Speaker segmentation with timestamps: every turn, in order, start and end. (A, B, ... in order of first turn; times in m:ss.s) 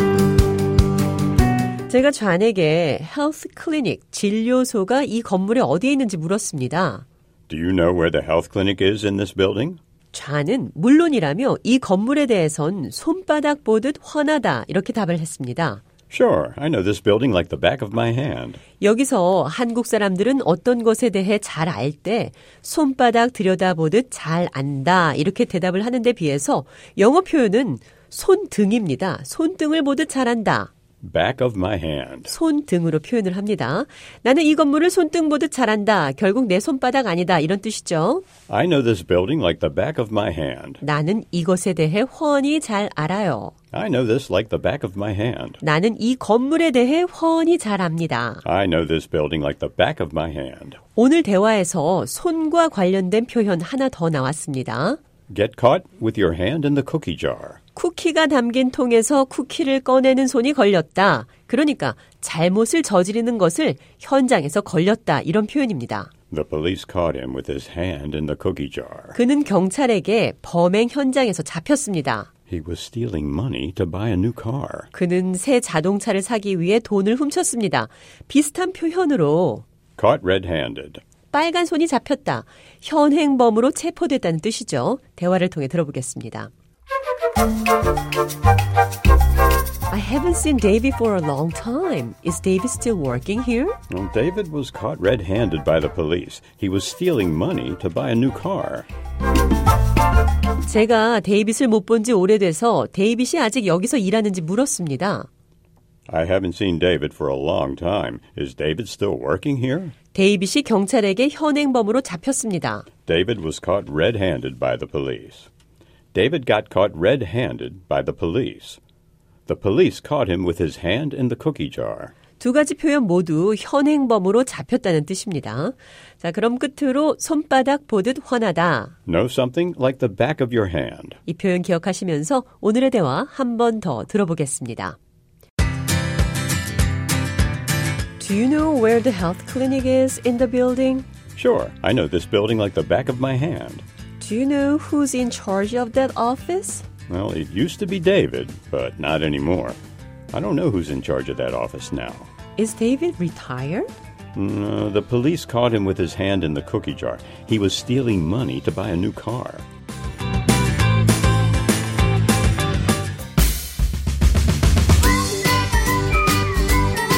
0:01.9-0:07.0 A
0:07.5-0:09.8 B
0:10.1-0:15.8 A
0:16.1-0:18.6 B
0:18.8-0:30.7 A
0:31.0-0:32.3 B
0:32.3-0:38.3 A
0:38.5-0:40.8 B
0:40.8-0:43.5 A
0:43.7-0:45.6 B
0:45.6-0:48.4 A
0:48.4-0:50.8 B
0:51.0-0:55.0 A
0:55.3-0:57.6 B
0:57.8-1:06.1 A
1:06.3-1:09.2 B
1:09.1-1:12.3 A
1:12.5-1:14.9 B
1:14.9-1:19.6 A
1:20.0-1:21.0 B
1:21.3-1:26.5 A
1:29.9-1:33.8 A
1:33.9-1:38.9 B
1:40.6-1:45.3 A
1:46.1-1:49.9 B
1:50.1-1:52.9 A
1:53.1-1:55.5 B
1:56.1-1:58.8 B
1:59.5-2:02.1 B
2:02.4-2:09.0 A
2:09.1-2:11.2 B
2:11.3-2:15.0 A
2:18.2-2:21.1 A
2:21.4-2:23.8 B
2:24.2-2:26.8 A
2:27.1-2:29.8 B
2:30.3-2:32.3 B
2:32.6-2:33.9 A
2:34.4-2:39.7 B